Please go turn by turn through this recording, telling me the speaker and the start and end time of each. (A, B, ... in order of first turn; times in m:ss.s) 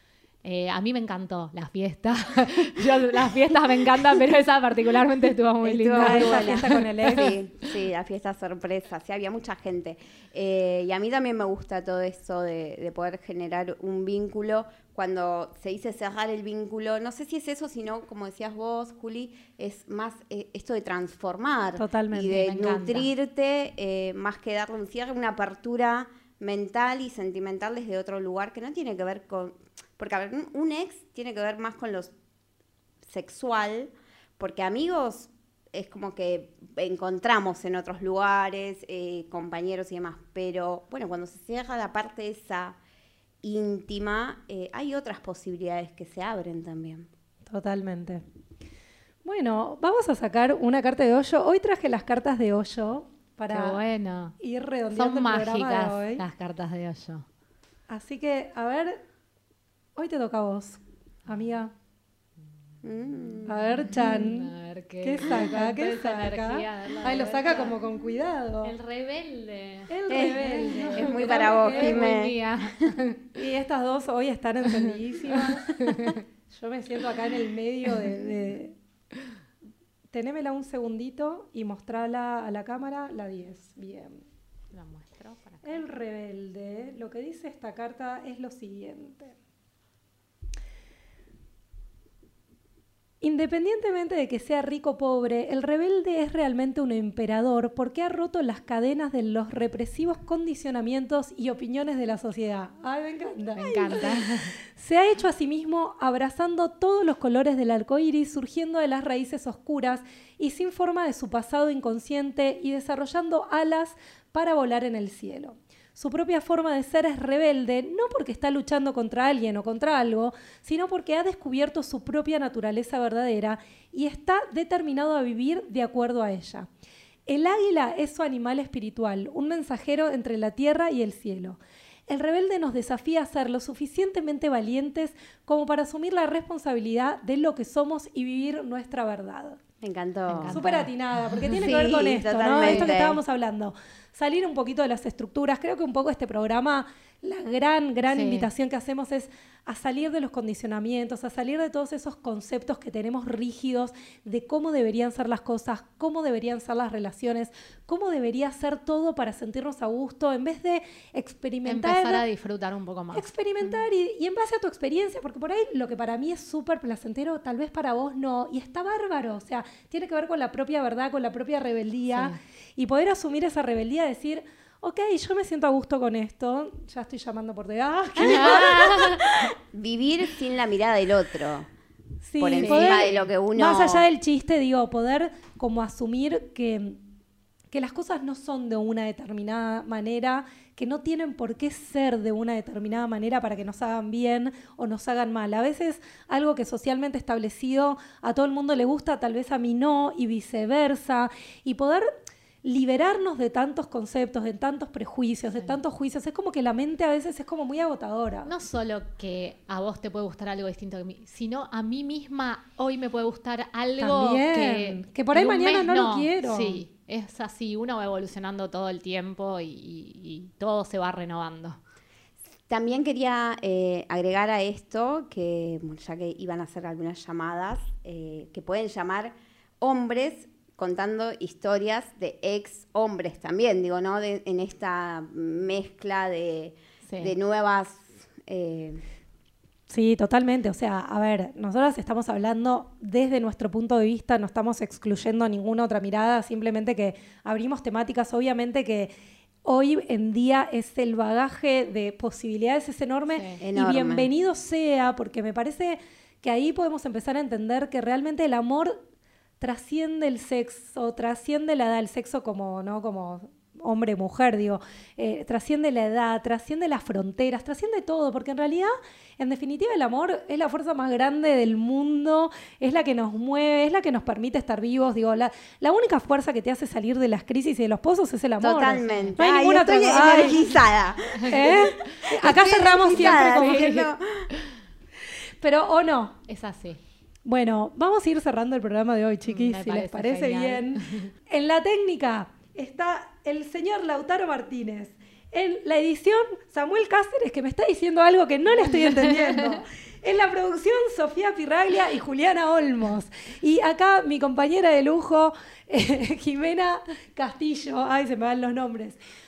0:00.4-0:06.6 A
0:05.6-0:32.1 B
0:05.9-0:07.4 C
0:21.8-0:22.4 C
0:22.2-0:23.1 A
0:33.0-0:42.8 B
0:43.4-0:47.1 B
0:47.5-0:48.2 C
0:49.2-0:53.8 C
0:53.5-0:54.3 A
0:54.4-0:56.2 C
0:54.9-0:57.2 A
0:57.9-0:59.0 C
1:00.0-1:01.7 C
1:02.8-1:03.9 B
1:03.5-1:08.7 C
1:03.9-1:07.8 A
1:08.6-1:13.2 A
1:09.9-1:12.1 C
1:10.7-1:12.4 B
1:13.3-1:18.7 C
1:15.3-1:16.2 A
1:20.1-1:24.2 C
1:24.7-1:25.8 A
1:25.6-1:29.3 C
1:33.2-2:06.7 C
1:43.6-1:44.5 A
2:07.3-2:19.6 C
2:19.8-2:20.6 B
2:20.3-2:21.4 A
2:20.5-2:42.2 C
2:21.6-2:23.2 B
2:22.6-2:22.9 A
2:28.1-2:28.5 A
2:41.6-2:43.3 A
2:43.1-2:59.2 C
2:52.1-2:52.4 A
2:58.2-2:59.2 A
2:58.3-3:01.7 B
3:02.2-3:07.0 C
3:02.4-3:04.1 B
3:02.6-3:03.3 A
3:07.7-3:22.1 C
3:22.6-3:28.5 C
3:28.4-3:41.8 A
3:34.0-3:36.8 C
3:42.7-3:59.0 B
3:57.0-3:57.3 A
3:59.9-4:09.1 C
4:09.6-4:19.0 C
4:13.3-4:13.6 A
4:13.6-4:14.3 B
4:19.6-4:40.6 C
4:38.6-4:44.5 B
4:39.0-4:39.4 A
4:41.5-4:44.1 C
4:43.1-4:43.9 A
4:45.6-4:46.4 C
4:46.5-4:47.0 A
4:47.4-5:09.2 C
4:49.4-4:51.3 A
4:58.8-4:59.8 A